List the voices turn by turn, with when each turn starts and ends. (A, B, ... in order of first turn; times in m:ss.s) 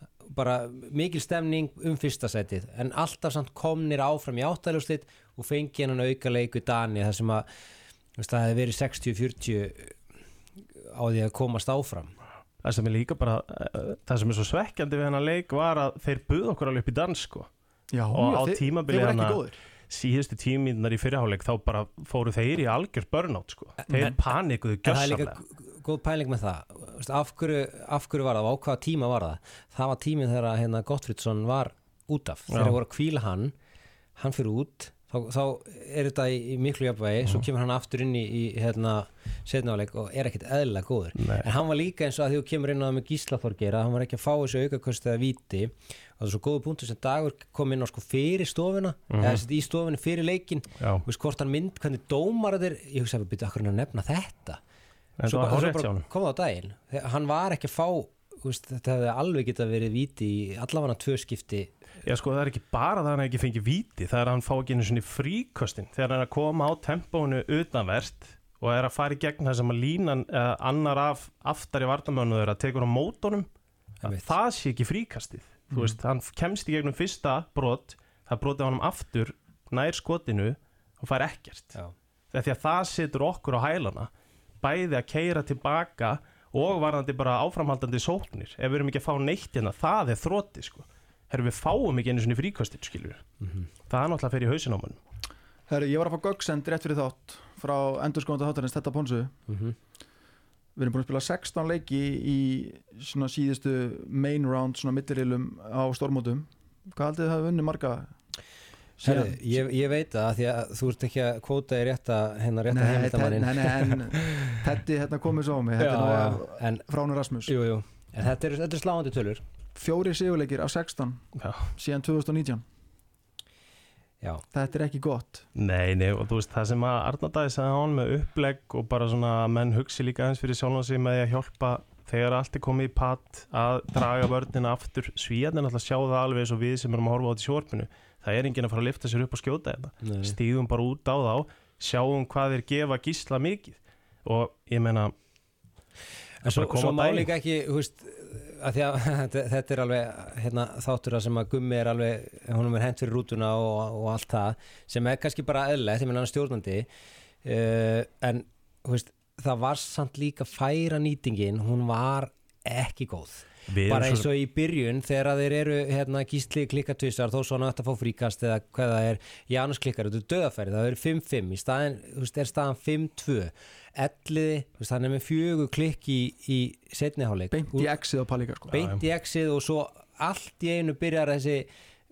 0:00.2-0:07.4 A
0:08.2-0:10.0 A
0:10.8-0:12.1 A
0:12.6-0:17.5 B
0:17.9-0:19.6 C
0:18.1-0:25.4 B
0:23.9-0:24.2 C
0:24.8-0:33.5 A
0:32.5-0:32.8 B
0:34.2-0:54.6 A
0:41.2-0:41.5 B
0:49.1-0:49.4 B
0:50.8-0:51.0 B
0:55.2-0:56.0 B
0:55.2-1:01.7 A
1:02.0-1:13.5 B
1:14.0-1:21.8 B
1:14.0-1:14.3 A
1:15.7-1:16.0 C
1:22.3-1:24.1 B
1:24.6-1:33.2 B
1:33.4-1:33.7 A
1:33.9-1:35.0 B
1:35.7-1:39.3 C
1:39.5-1:39.8 A
1:40.8-1:48.1 C
1:49.0-1:49.6 C
1:49.0-1:54.6 A
1:52.7-1:57.5 C
1:55.8-1:56.8 A
1:57.4-1:59.4 A
1:59.8-2:02.6 C
2:01.4-2:01.7 B
2:04.5-2:05.4 C
2:05.6-2:25.1 B
2:20.0-2:20.3 A
2:26.4-2:36.9 A
2:26.4-2:27.3 B
2:37.4-2:57.9 A
2:43.7-2:44.3 B
2:57.5-2:58.7 C
2:58.7-3:01.7 A
2:58.7-2:59.0 B